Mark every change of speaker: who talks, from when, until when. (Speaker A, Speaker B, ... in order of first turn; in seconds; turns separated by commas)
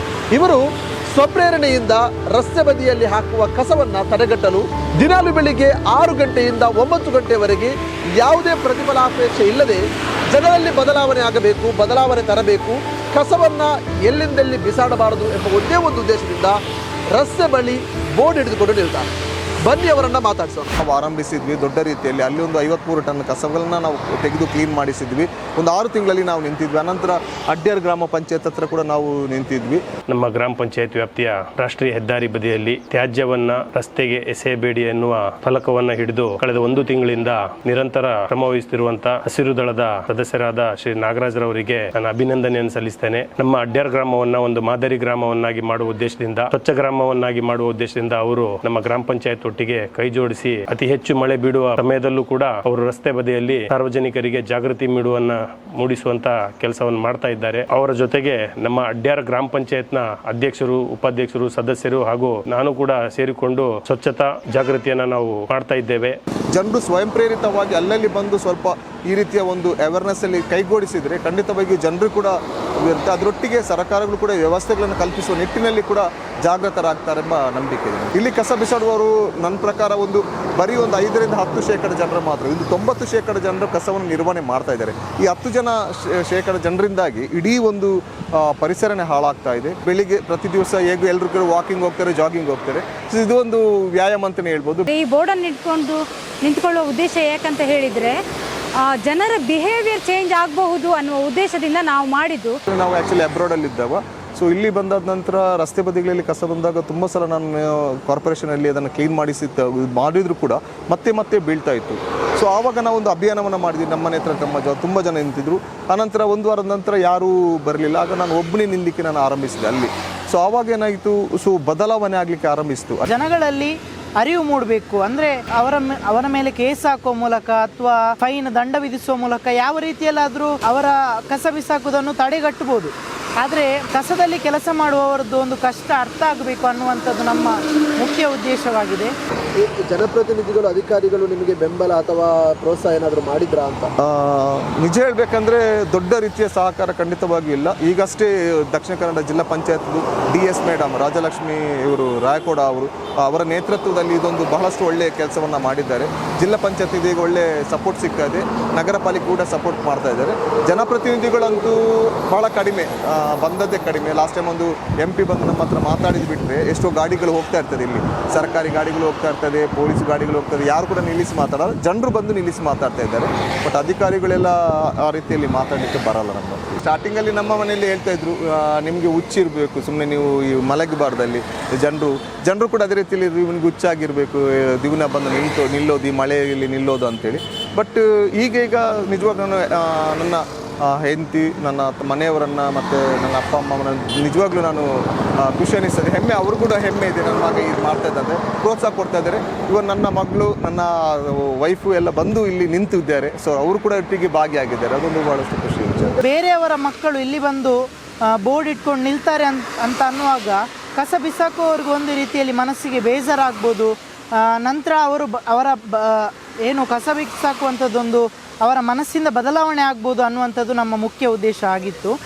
Speaker A: 0.3-16.6, Speaker A: 17.1-20.7, Speaker B: 20.8-29.8, Speaker C: 30.1-66.2, Speaker B: 66.5-94.9, Speaker D: 94.9-98.2, Speaker D: 98.9-102.6, Speaker B: 102.7-123.0, Speaker E: 123.1-139.1, Speaker A: 139.6-143.9, Speaker B: 144.0-206.2, Speaker E: 206.2-207.8, Speaker E: 208.4-213.9, Speaker E: 214.6-222.1